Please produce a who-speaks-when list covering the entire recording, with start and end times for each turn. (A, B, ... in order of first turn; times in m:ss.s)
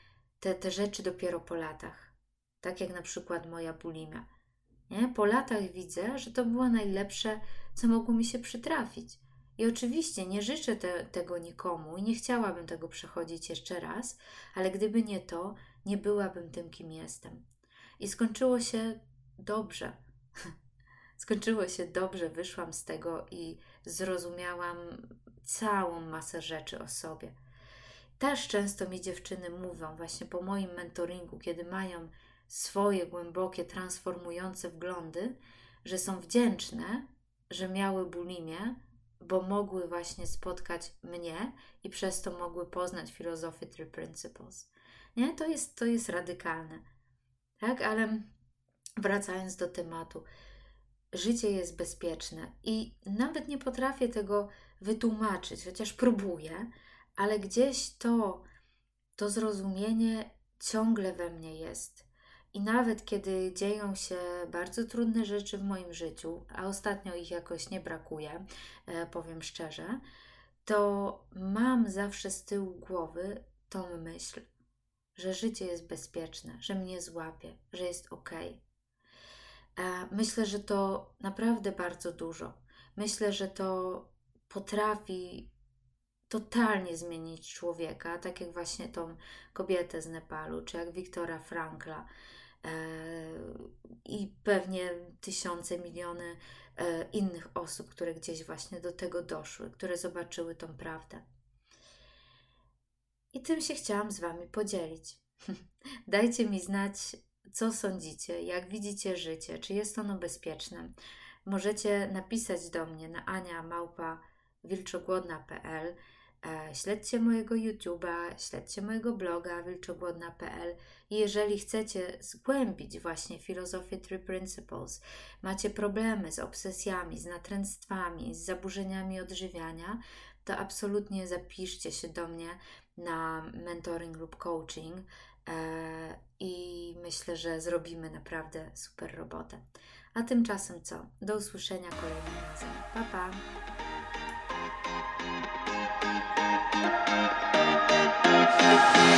0:00.4-0:04.2 A
0:04.9-0:17.4 A
0:18.0-0:20.0 A
0:21.2-0:27.3 A
0:28.2-0:46.8 A
0:47.6-0:48.3 A
0:49.0-0:50.2 A
0:51.1-0:58.4 A
0:59.2-1:10.0 A
1:10.6-1:14.4 A
1:15.2-1:18.6 A
1:19.8-1:25.5 A
1:26.3-1:32.1 A
1:32.6-1:41.2 A
1:43.3-1:50.9 A
1:51.4-2:19.6 A
2:20.1-2:23.4 A